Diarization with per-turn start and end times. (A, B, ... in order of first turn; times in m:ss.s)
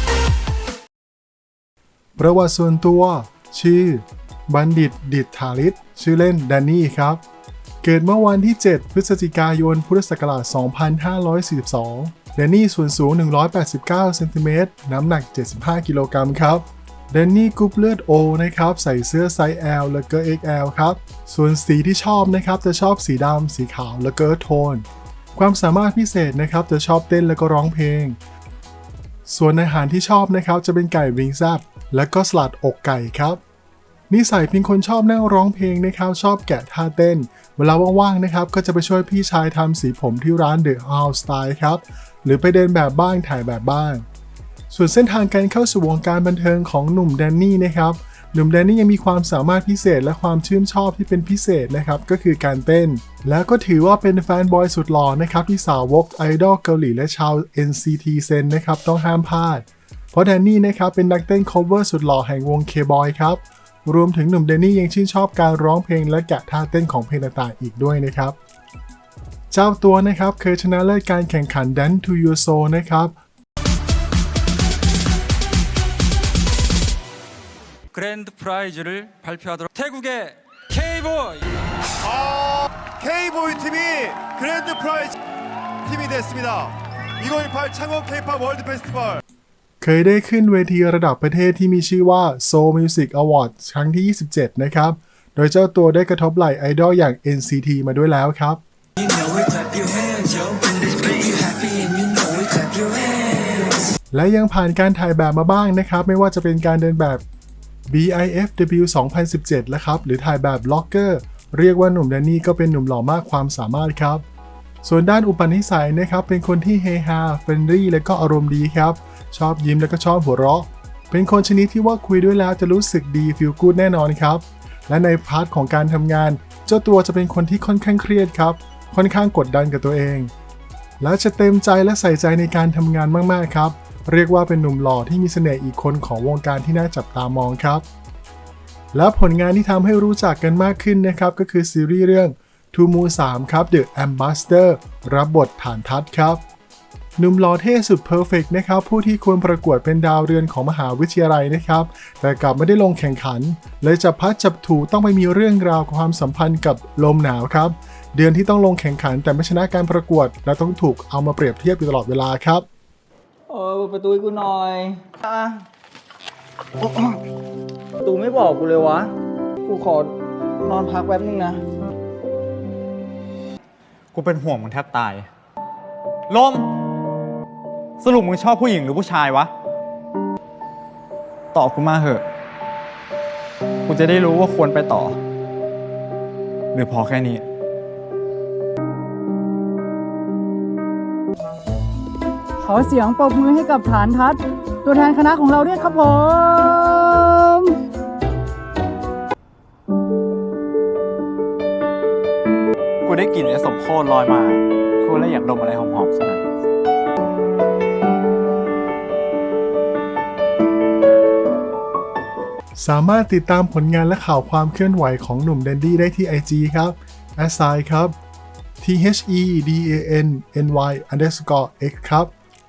0:02.2-0:07.2 A
0:07.8-0:28.2 A
0:29.2-0:33.4 A
0:34.1-0:44.0 A
0:44.7-1:08.4 A
1:09.5-1:13.2 A
1:17.9-1:21.4 B
1:22.0-1:25.2 C
1:25.8-1:29.2 C
1:29.8-1:38.6 A
1:39.0-1:43.8 D
1:44.1-1:47.2 A
1:47.9-1:54.2 A
1:54.8-2:10.3 A
2:11.0-2:17.8 A
2:18.9-2:26.4 A
2:27.2-2:42.6 A
2:43.5-2:45.6 E
2:46.8-2:47.2 E
2:48.0-2:51.6 E
2:54.1-2:55.3 F
2:56.3-2:56.7 F
2:58.0-2:59.5 F
3:01.5-3:02.2 F
3:03.8-3:05.2 F
3:06.7-3:07.4 F
3:12.6-3:17.8 G
3:23.0-3:26.4 F
3:32.7-3:38.2 A
3:38.8-3:42.3 A